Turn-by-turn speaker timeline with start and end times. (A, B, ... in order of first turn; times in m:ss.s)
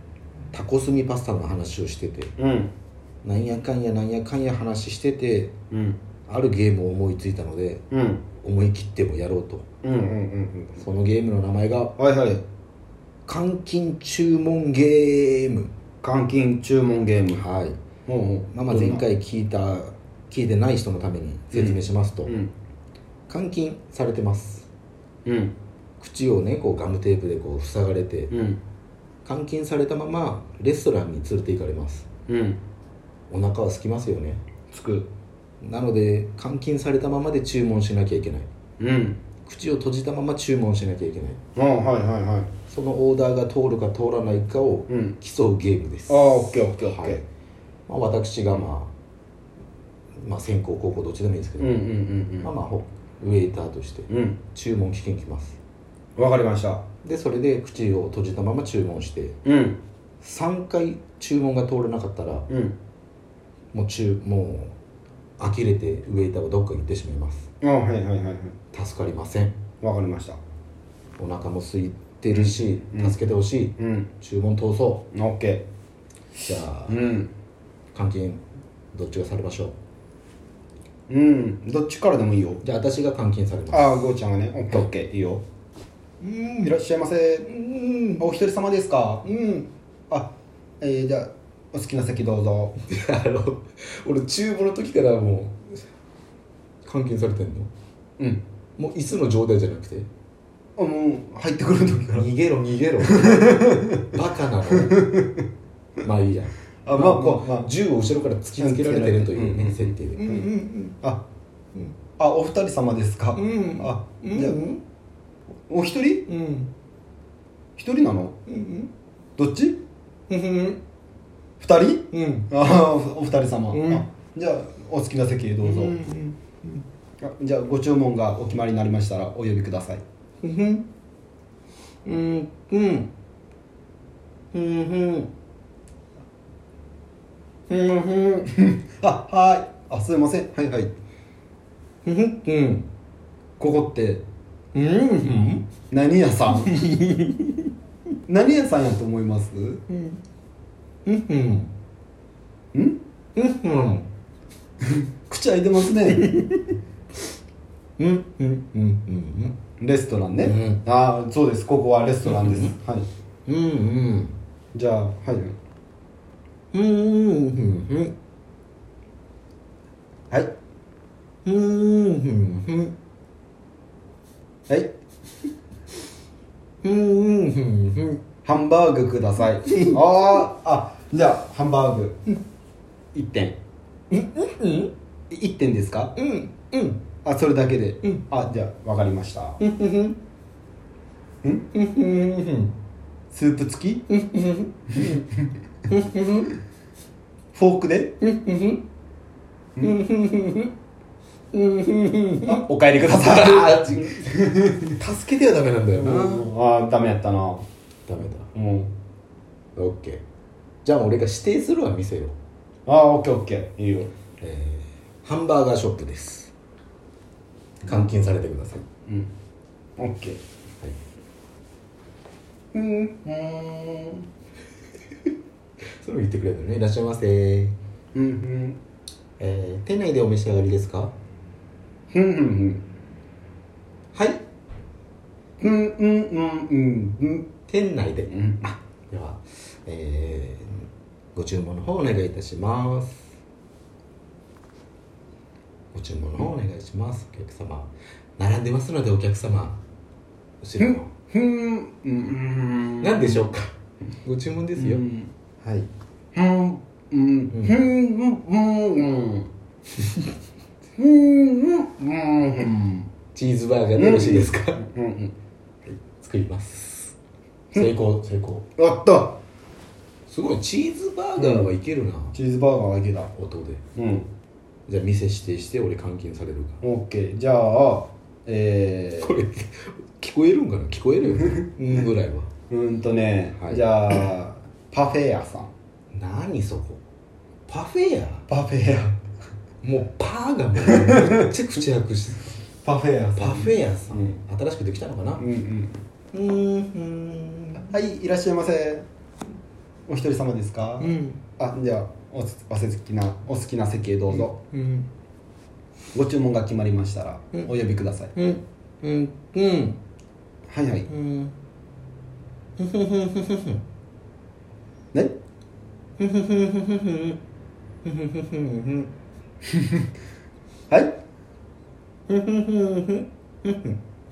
0:00.5-0:02.3 A
0:02.4-0:02.7 B
0:03.2-0:05.5 A
0:05.7-0:06.0 B
0:06.3-0:07.8 A
0:07.9-0:08.2 B
0:08.4-0:09.6 A
0:09.8-0:10.8 B
0:10.8-0:11.9 A
0:12.0-0:12.4 B
0:13.2-0:15.7 A
0:16.0-0:17.4 B
0:17.3-0:17.8 A
0:18.0-0:19.0 B
0:18.5-0:22.3 A
0:21.5-0:22.5 B
0:23.3-0:24.7 A
0:25.2-0:25.5 B
0:26.0-0:28.3 A
0:28.3-0:28.6 B
0:29.2-0:32.0 A
0:32.3-0:32.6 B
0:33.3-0:34.4 A
0:34.7-0:35.1 B
0:35.6-0:38.5 A
0:38.8-0:39.2 B
0:39.4-0:41.4 A
0:41.6-0:42.5 B
0:42.7-0:47.2 A
0:44.9-0:45.2 B
0:46.1-0:47.2 B
0:47.9-0:48.9 A
0:50.2-0:51.8 A
0:51.6-0:52.5 B
0:52.4-0:55.6 A
0:54.1-0:54.4 B
0:56.2-0:56.8 B
0:57.0-0:59.4 A
0:59.4-0:59.8 B
1:00.2-1:02.4 A
1:02.5-1:02.7 B
1:03.7-1:04.8 A
1:05.4-1:07.5 A
1:07.6-1:08.6 B
1:08.7-1:09.6 A
1:09.8-1:10.4 B
1:11.2-1:15.1 A
1:12.3-1:13.2 B
1:13.8-1:14.1 B
1:15.1-1:15.6 B
1:16.4-1:17.1 A
1:16.9-1:17.3 B
1:17.9-1:18.4 A
1:18.9-1:19.7 A
1:21.1-1:22.6 B
1:22.6-1:24.0 A
1:23.7-1:25.4 B
1:26.2-1:26.7 A
1:26.6-1:27.5 B
1:27.4-1:28.2 A
1:28.2-1:32.7 B
1:32.8-1:35.6 A
1:36.8-1:37.7 A
1:38.8-1:40.1 A
1:40.8-1:42.3 B
1:42.2-1:45.1 A
1:43.0-1:44.0 B
1:44.7-1:45.4 B
1:46.0-1:51.0 A
1:46.8-1:47.7 B
1:48.6-1:50.5 B
1:52.2-1:54.6 B
1:53.4-1:54.8 A
1:55.7-1:56.3 B
1:56.3-1:56.7 A
1:57.8-1:58.4 B
1:58.5-1:58.9 A
1:59.4-1:59.8 B
2:00.3-2:00.8 A
2:01.6-2:06.0 B
2:02.1-2:02.5 A
2:03.7-2:04.0 A
2:05.6-2:06.8 A
2:07.2-2:10.0 B
2:10.4-2:10.8 A
2:12.0-2:13.1 A
2:14.5-2:15.3 A
2:17.7-2:18.5 A
2:18.5-2:20.9 B
2:22.0-2:22.9 A
2:23.6-2:24.2 B
2:24.7-2:25.6 A
2:25.9-2:26.7 B
2:26.7-2:27.5 A
2:28.3-2:29.8 B
2:29.9-2:30.2 A
2:31.0-2:31.7 A
2:32.7-2:33.0 B
2:33.3-2:34.1 A
2:34.8-2:36.4 B
2:36.1-2:36.5 A
2:38.0-2:39.6 A
2:39.8-2:43.1 B
2:40.4-2:40.8 A
2:42.2-2:42.7 A
2:43.5-2:44.4 A
2:44.7-2:45.6 B
2:46.7-2:48.1 A
2:51.4-2:52.9 A
2:56.8-2:58.2 A
2:58.4-3:02.2 B
2:59.7-3:00.0 A
3:03.1-3:03.6 B
3:04.1-3:04.9 A
3:05.3-3:06.1 B
3:06.2-3:07.0 A
3:07.2-3:09.6 B
3:09.6-3:10.2 A
3:11.7-3:12.7 A
3:13.3-3:14.0 B
3:14.1-3:15.2 A
3:15.0-3:15.4 B
3:15.9-3:16.5 A
3:17.5-3:18.1 B
3:18.2-3:18.8 A
3:19.8-3:20.7 A
3:21.5-3:24.3 A
3:22.4-3:25.0 B
3:24.9-3:26.5 A
3:26.0-3:27.6 B
3:28.1-3:28.5 A
3:28.5-3:28.9 B
3:29.8-3:30.2 A
3:30.8-3:32.4 A
3:32.8-3:34.1 B
3:34.4-3:36.5 A
3:37.8-3:38.8 A
3:39.0-3:39.3 B
3:40.0-3:40.4 B
3:42.7-3:44.2 B
3:46.0-3:47.8 A
3:48.1-3:48.8 B
3:49.4-3:51.1 A
3:52.1-3:52.8 B
3:54.1-3:54.4 A
3:55.6-3:57.5 B
3:57.7-4:03.3 A
3:58.3-3:58.7 B
4:05.9-4:09.8 A
4:10.6-4:11.1 A
4:10.8-4:13.5 B
4:13.0-4:15.0 A
4:14.8-4:15.3 B
4:16.3-4:19.5 B
4:17.5-4:17.8 A
4:21.0-4:23.1 B
4:23.3-4:24.8 A
4:24.0-4:25.3 B
4:25.9-4:27.2 A
4:27.7-4:28.7 A
4:28.8-4:29.4 B
4:30.3-4:32.4 A
4:31.4-4:31.7 B
4:32.3-4:33.3 B
4:33.3-4:33.8 A
4:34.0-4:34.3 B
4:34.9-4:36.8 A
4:36.8-4:39.3 B
4:39.2-4:42.5 A
4:42.7-4:45.7 B
4:43.6-4:44.2 A
4:46.1-4:47.0 A
4:47.7-4:48.4 A
4:48.5-4:49.2 B
4:49.8-4:52.5 A
4:50.8-4:51.5 B
4:52.8-4:54.3 B
4:53.4-4:55.4 A
4:55.4-4:56.0 B
4:56.3-4:57.9 A
4:57.7-4:59.0 B
5:00.1-5:04.5 B
5:01.0-5:01.4 A
5:04.3-5:05.1 A
5:06.1-5:08.3 B
5:08.3-5:10.0 A
5:10.7-5:11.1 B
5:11.1-5:11.5 A
5:12.8-5:13.8 A
5:16.2-5:17.4 A
5:18.0-5:19.1 A
5:19.7-5:20.0 B
5:20.9-5:21.2 B
5:22.3-5:24.0 A